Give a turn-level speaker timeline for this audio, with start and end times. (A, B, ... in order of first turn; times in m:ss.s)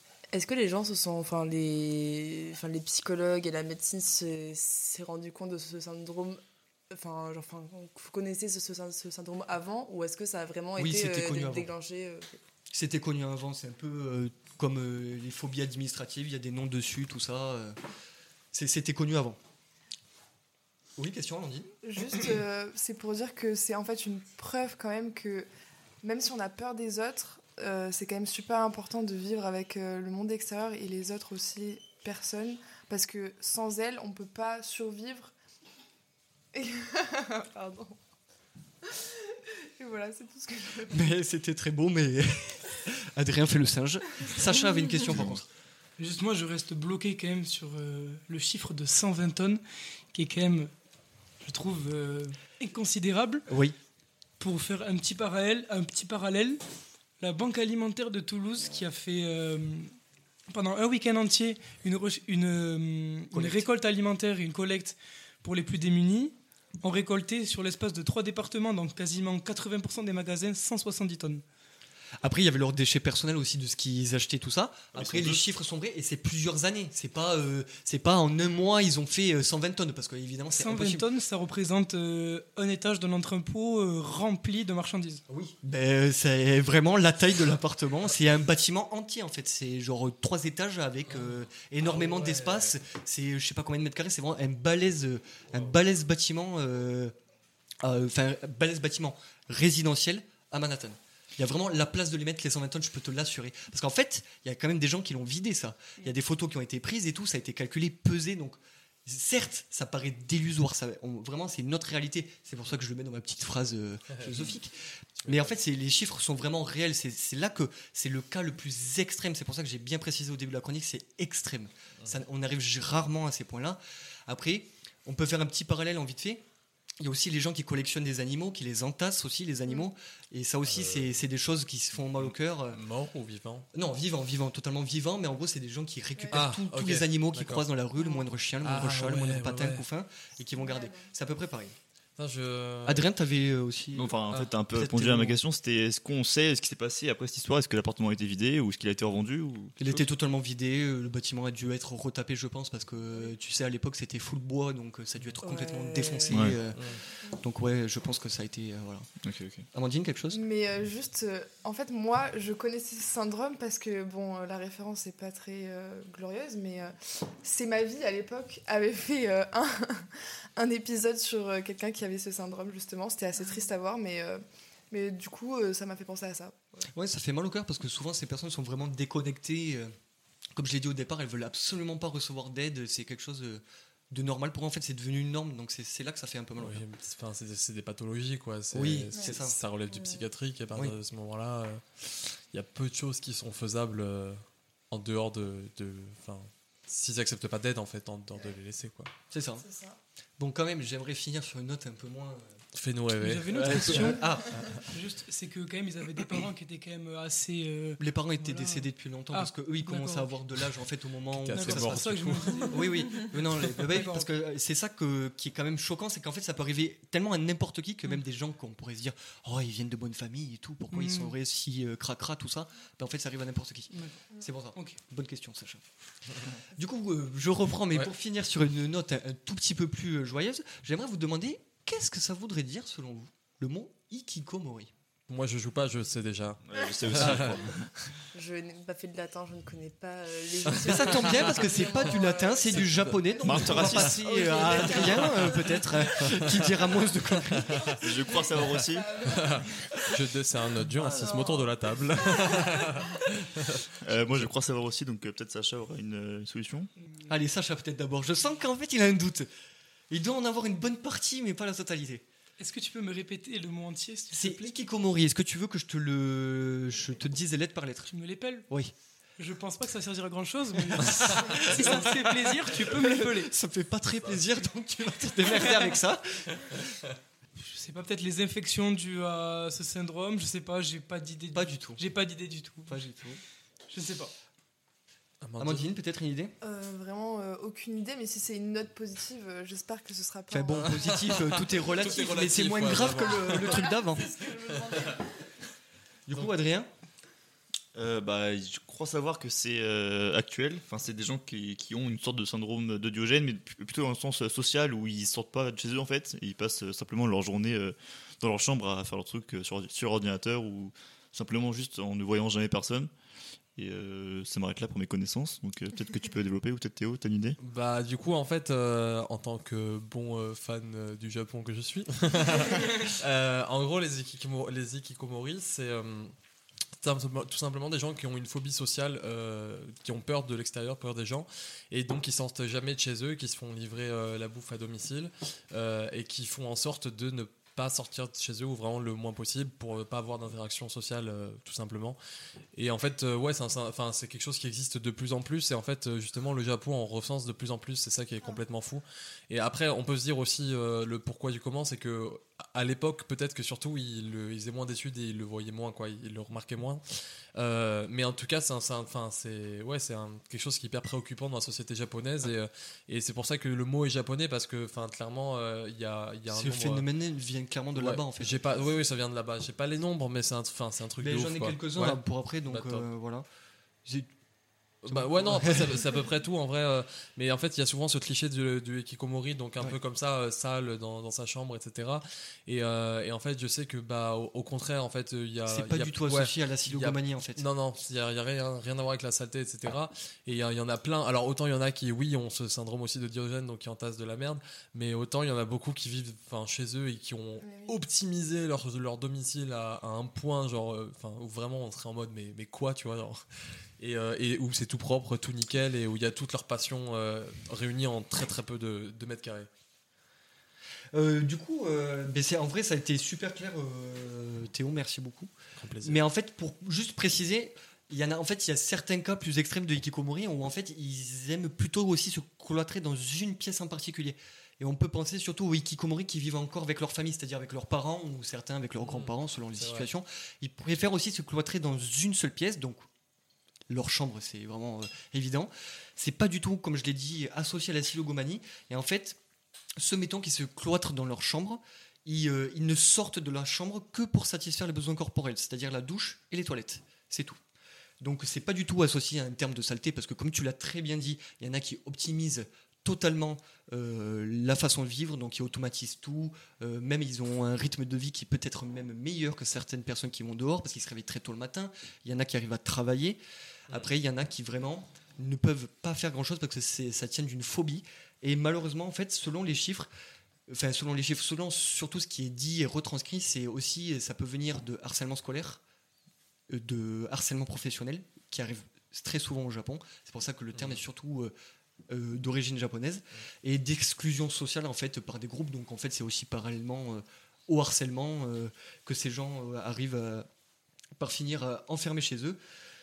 0:00.3-0:12.4 A
0:10.8-0:11.7 B
0:12.7-0:17.8 B
0:18.5-0:19.4 B
0:21.0-0:21.7 B
0:21.8-0:25.5 C
0:26.0-0:35.3 C
0:36.5-0:38.0 C
0:38.8-0:41.0 C
0:40.9-0:45.4 B
0:45.0-0:45.4 D
0:46.0-0:49.6 E
0:50.1-0:50.7 E
0:51.4-0:53.4 E
0:53.5-0:53.8 B
0:54.4-0:56.6 E
0:57.2-1:00.0 E
1:00.5-1:11.4 E
1:03.3-1:03.7 B
1:12.2-1:21.0 B
1:14.9-1:15.4 D
1:20.5-1:25.2 E
1:25.3-1:37.1 B
1:31.1-1:32.7 F
1:37.8-2:06.4 B
1:54.2-1:54.4 F
1:55.2-1:55.6 F
2:07.0-2:12.8 B
2:10.6-2:11.2 F
2:12.1-2:13.7 F
2:13.7-2:21.8 B
2:16.3-2:17.6 F
2:18.0-2:18.2 C
2:18.6-2:19.8 F
2:20.6-2:21.1 C
2:22.2-2:23.1 F
2:22.8-2:24.2 B
2:23.9-2:30.0 D
2:24.7-2:25.4 B
2:29.8-2:39.1 B
2:35.4-2:36.4 A
2:36.3-2:36.6 D
2:36.7-2:37.0 F
2:39.2-2:39.6 D
2:39.7-2:40.4 B
2:40.3-2:56.9 C
2:56.9-2:59.9 B
3:00.5-3:06.8 B
3:06.6-3:19.1 F
3:08.7-3:09.6 B
3:19.3-3:19.6 B
3:19.6-3:20.0 C
3:20.4-3:22.6 B
3:22.7-3:24.8 F
3:23.2-3:30.3 E
3:23.5-3:24.8 B
3:28.0-3:45.8 B
3:31.4-3:32.8 F
3:31.5-3:34.3 E
3:40.9-3:41.3 E
3:43.9-3:44.2 E
3:46.8-3:54.9 B
3:55.3-3:57.6 F
3:56.6-3:57.9 D
3:57.2-3:57.4 B
3:58.3-4:03.3 A
4:00.8-4:07.9 B
4:00.9-4:01.5 F
4:03.4-4:05.3 D
4:04.3-4:05.0 A
4:04.3-4:05.2 C
4:06.2-4:06.6 F
4:07.6-4:10.2 C
4:08.0-4:09.1 D
4:09.2-4:13.8 F
4:11.0-4:11.6 C
4:12.2-4:13.2 C
4:14.0-4:16.9 D
4:17.3-4:19.5 B
4:20.1-4:22.2 B
4:22.6-4:24.7 E
4:24.3-4:28.1 B
4:28.1-4:28.7 E
4:28.7-4:28.9 B
4:29.4-4:33.5 E
4:30.9-4:36.8 B
4:31.1-4:31.9 F
4:37.6-4:43.1 E
4:41.5-4:42.0 B
4:42.9-4:43.4 B
4:43.9-4:44.3 E
4:45.4-4:45.9 F
4:45.6-4:46.5 B
4:46.6-4:51.3 C
4:50.5-4:54.3 B
4:51.0-4:55.2 F
4:53.5-4:55.5 C
4:56.3-4:56.9 B
4:57.9-5:13.1 D
5:13.8-5:17.6 D
5:17.6-5:26.3 F
5:27.0-5:42.2 F
5:42.7-5:57.0 F
5:57.5-6:07.0 F
6:06.5-6:08.6 B
6:07.9-6:13.1 F
6:11.2-6:13.4 B
6:15.0-6:43.4 F
6:15.0-6:16.2 B
6:25.7-6:27.6 B
6:37.6-6:38.0 C
6:44.0-6:49.7 F
6:51.1-6:55.5 B
6:55.8-6:56.2 F
6:56.0-7:13.0 B
7:09.0-7:10.1 F
7:13.9-7:19.4 B
7:20.0-7:27.6 B
7:28.2-7:50.1 B
7:50.7-7:55.8 B
7:56.7-8:01.5 B
8:00.7-8:01.0 F
8:02.1-8:10.5 B
8:11.2-8:12.6 B